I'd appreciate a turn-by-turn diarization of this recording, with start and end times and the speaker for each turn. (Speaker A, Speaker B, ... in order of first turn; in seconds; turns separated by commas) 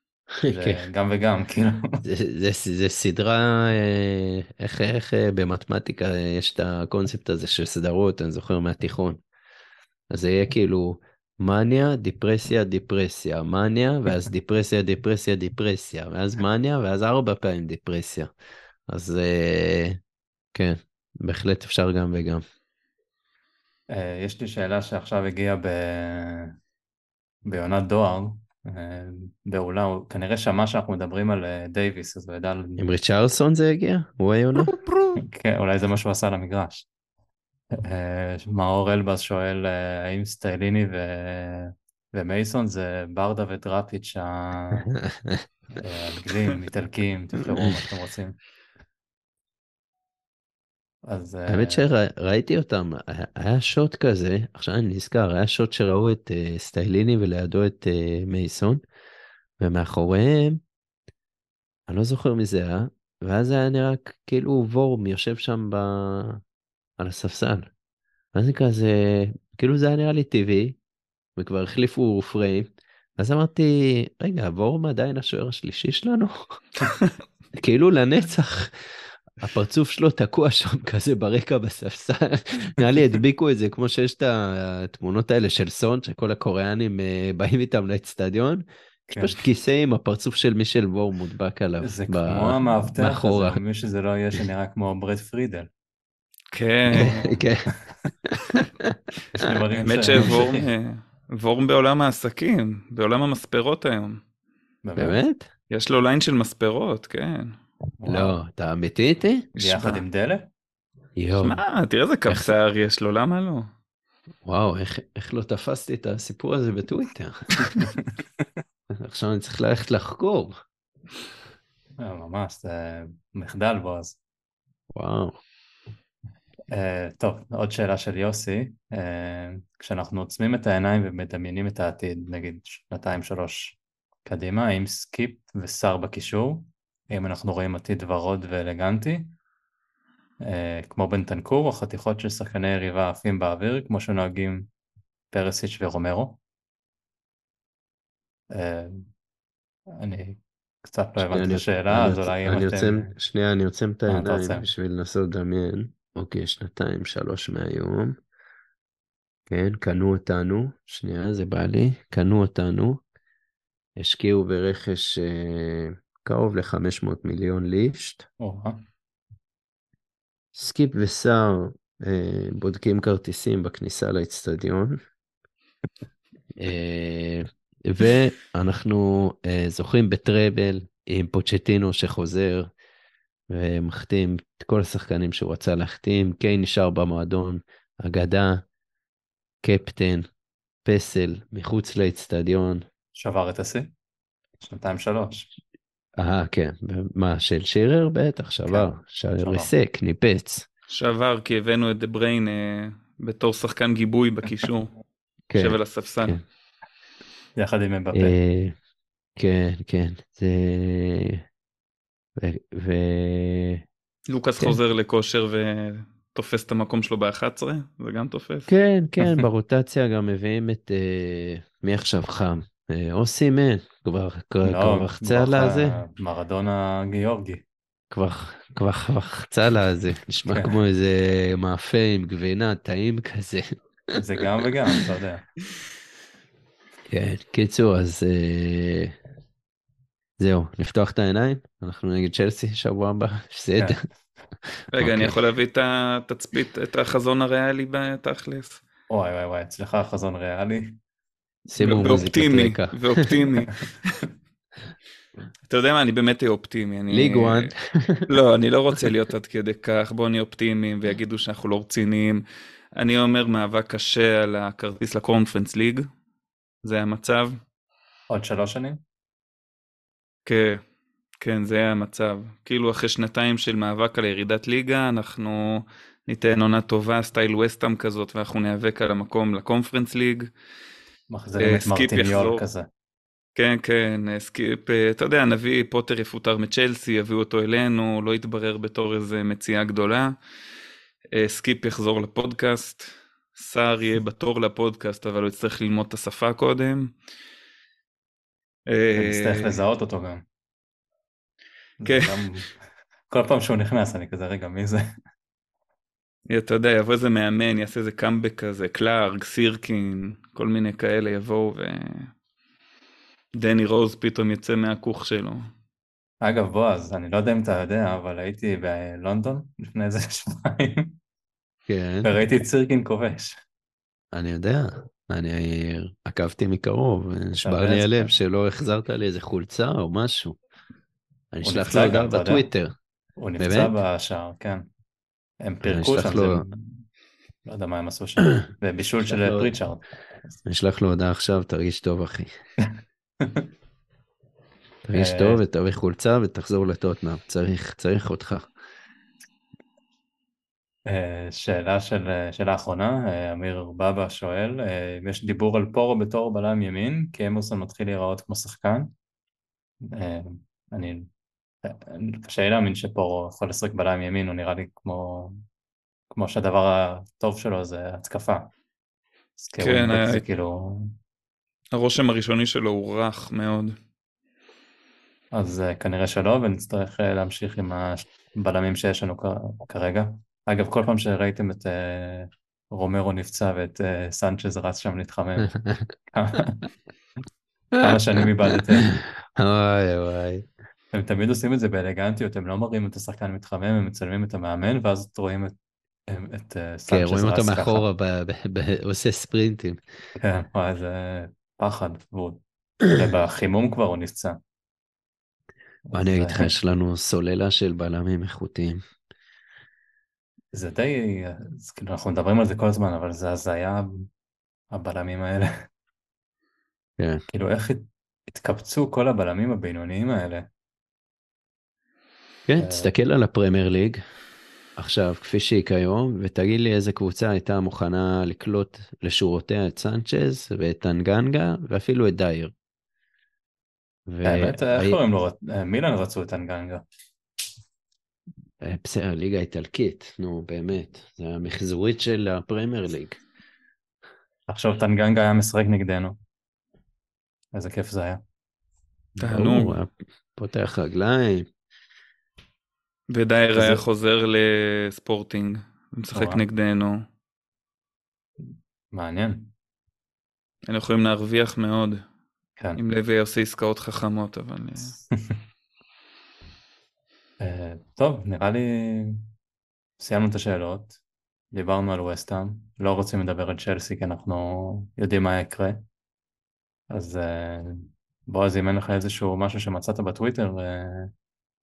Speaker A: 0.4-0.8, Speaker B: 0.5-1.9, Speaker A: 2.0-9.2, Speaker A: 10.1-18.3, Speaker A: 18.9-20.0, Speaker A: 20.5-22.4, Speaker B: 23.9-26.5, Speaker B: 27.5-32.8, Speaker A: 32.8-34.7, Speaker B: 35.2-36.9, Speaker B: 37.7-44.9, Speaker A: 44.9-45.4, Speaker B: 45.8-48.4, Speaker B: 51.0-51.8, Speaker A: 51.5-58.8, Speaker A: 59.6-60.6, Speaker A: 61.9-66.4, Speaker A: 67.0-67.7, Speaker A: 68.3-70.8, Speaker A: 71.4-76.6, Speaker A: 77.5-88.6, Speaker B: 89.1-89.4, Speaker A: 89.2-93.6, Speaker B: 91.8-95.7, Speaker C: 96.5-97.3, Speaker B: 96.9-97.2, Speaker A: 96.9-97.7, Speaker A: 98.2-99.0, Speaker B: 99.3-100.7, Speaker C: 99.8-104.2, Speaker B: 104.8-105.2, Speaker A: 105.0-105.5, Speaker C: 105.7-107.5, Speaker B: 108.0-108.4, Speaker A: 108.1-109.5, Speaker C: 109.5-110.0, Speaker B: 109.6-110.5, Speaker A: 111.2-111.6, Speaker C: 111.4-113.7, Speaker A: 114.4-117.8, Speaker B: 117.6-117.9, Speaker A: 118.9-120.5, Speaker B: 122.0-124.2, Speaker A: 124.9-125.4, Speaker B: 126.7-139.3, Speaker B: 140.4-144.7, Speaker B: 145.3-146.4, Speaker B: 148.5-149.1, Speaker B: 150.0-153.1, Speaker A: 151.2-158.2, Speaker B: 154.1-154.7, Speaker A: 159.5-163.0, Speaker A: 164.0-168.2, Speaker B: 168.4-168.8, Speaker A: 170.5-175.0, Speaker A: 176.6-182.7, Speaker A: 183.5-188.6, Speaker A: 189.6-190.2, Speaker A: 190.8-192.8, Speaker B: 193.1-193.9, Speaker B: 194.6-195.5, Speaker A: 196.2-200.7, Speaker B: 198.7-199.7, Speaker C: 200.9-204.9, Speaker A: 205.5-206.4, Speaker C: 205.5-206.4, Speaker B: 207.6-208.3, Speaker A: 208.1-208.7, Speaker A: 209.4-211.4, Speaker A: 212.4-213.8, Speaker C: 214.3-218.7, Speaker A: 218.7-226.0, Speaker B: 224.6-227.6, Speaker A: 228.1-234.2, Speaker B: 230.5-230.8, Speaker B: 234.1-235.4, Speaker A: 237.1-239.1, Speaker A: 240.4-244.0, Speaker A: 244.9-245.3, Speaker C: 244.9-248.8, Speaker B: 249.1-251.0, Speaker A: 251.7-253.3, Speaker C: 251.8-254.2, Speaker C: 255.7-257.7, Speaker A: 257.1-258.4, Speaker C: 258.3-262.4, Speaker C: 262.9-266.1, Speaker C: 266.8-267.6, Speaker B: 268.3-269.0, Speaker C: 270.4-270.8, Speaker C: 271.4-280.5, Speaker B: 281.3-282.9, Speaker C: 281.6-282.6, Speaker C: 283.6-290.3, Speaker C: 291.3-297.1, Speaker C: 298.9-299.8, Speaker B: 299.1-300.4, Speaker B: 302.0-302.7, Speaker C: 302.1-302.5, Speaker B: 303.3-305.0, Speaker C: 306.5-312.3, Speaker C: 313.5-315.7, Speaker B: 316.4-321.1, Speaker A: 321.9-322.3, Speaker B: 322.2-323.6, Speaker A: 324.3-330.6, Speaker B: 327.6-328.4, Speaker A: 331.5-332.9, Speaker B: 331.6-332.7, Speaker B: 333.4-334.9, Speaker A: 333.6-334.0, Speaker B: 335.6-337.1, Speaker A: 335.8-336.6, Speaker B: 337.6-340.6, Speaker A: 339.2-339.7, Speaker A: 340.6-342.5, Speaker A: 345.0-348.7, Speaker B: 345.1-345.6, Speaker B: 351.1-359.1, Speaker B: 360.1-361.3, Speaker B: 361.8-365.6, Speaker B: 366.3-368.7, Speaker B: 369.6-371.1, Speaker C: 369.8-370.4, Speaker C: 371.9-373.9, Speaker B: 375.5-386.9, Speaker B: 388.0-389.1, Speaker A: 389.1-390.7, Speaker B: 391.1-395.7, Speaker B: 396.3-398.1, Speaker A: 397.1-400.0, Speaker B: 400.4-402.6, Speaker B: 403.1-404.6, Speaker B: 406.1-406.7, Speaker A: 406.1-409.0, Speaker B: 410.7-414.3, Speaker B: 414.9-415.8, Speaker B: 417.5-420.7, Speaker A: 422.7-424.2, Speaker B: 422.8-423.1, Speaker A: 425.0-432.7, Speaker A: 434.3-435.2, Speaker B: 434.4-437.0, Speaker A: 438.8-443.4, Speaker B: 444.7-446.4, Speaker B: 447.7-448.4, Speaker C: 449.4-450.0, Speaker A: 449.4-451.7, Speaker C: 453.3-457.2, Speaker A: 453.7-454.0, Speaker B: 456.3-456.6, Speaker B: 458.6-459.7, Speaker C: 460.9-462.2, Speaker C: 462.9-465.1, Speaker B: 467.6-469.4, Speaker B: 470.2-471.1, Speaker B: 471.7-476.0, Speaker B: 477.1-481.3